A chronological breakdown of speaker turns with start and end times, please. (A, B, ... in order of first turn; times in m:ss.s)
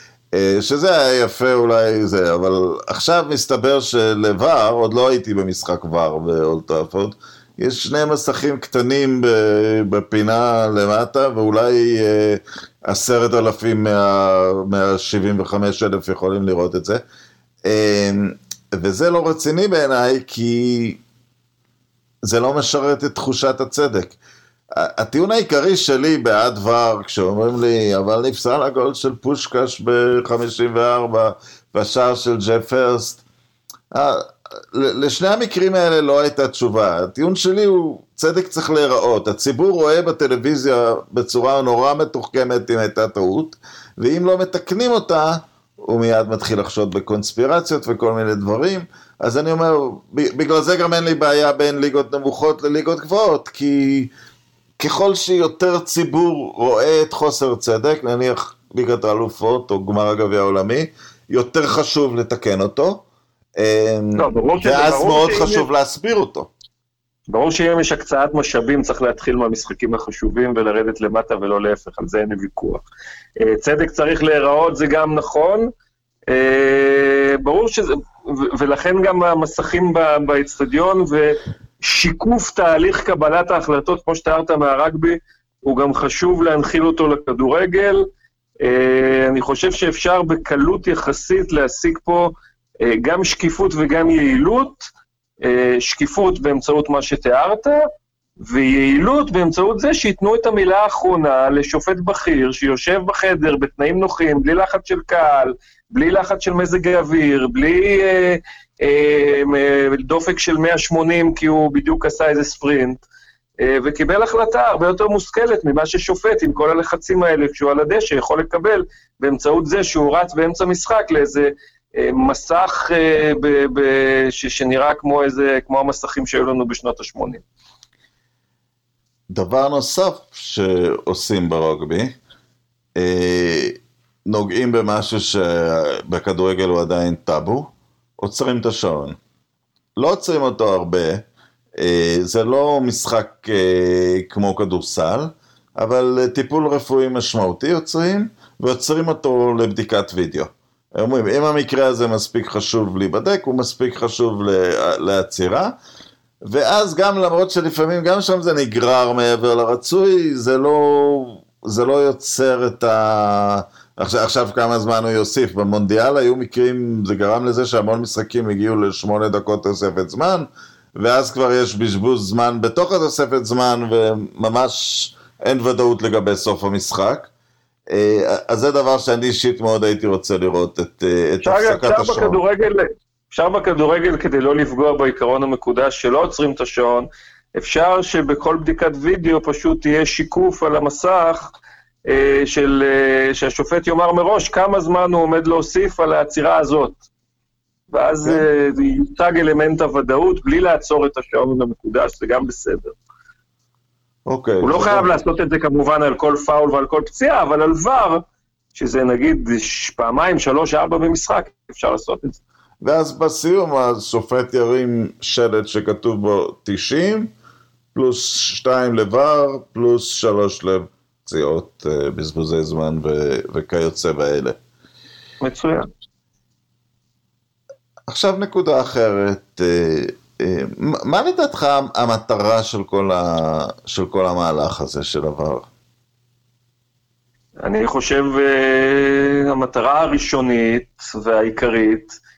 0:00.3-0:17.0 A
0:17.6-0:21.0 A
0:22.2-0:24.2 A
0:24.8-0:33.2 A
0:33.9-0:54.1 A
0:54.8-1:03.0 A
1:03.6-1:06.5 A
1:04.2-1:05.6 B
1:07.3-1:12.8 B
1:13.4-1:15.7 B
1:16.3-1:28.1 B
1:28.6-1:34.9 B
1:35.4-1:37.8 B
1:38.4-1:53.0 B
1:53.6-2:07.4 B
2:09.3-2:12.1 A
2:13.0-2:19.2 A
2:20.0-2:21.2 A
2:21.8-2:35.7 A
2:36.5-2:57.3 A
2:57.9-3:02.4 A
3:01.4-3:17.0 B
3:17.9-3:23.0 B
3:24.3-3:25.1 A
3:24.6-3:28.2 B
3:28.7-3:32.4 B
3:32.8-3:37.3 A
3:37.9-3:44.6 A
3:45.4-3:45.9 B
3:48.1-3:55.7 A
3:57.6-4:02.2 B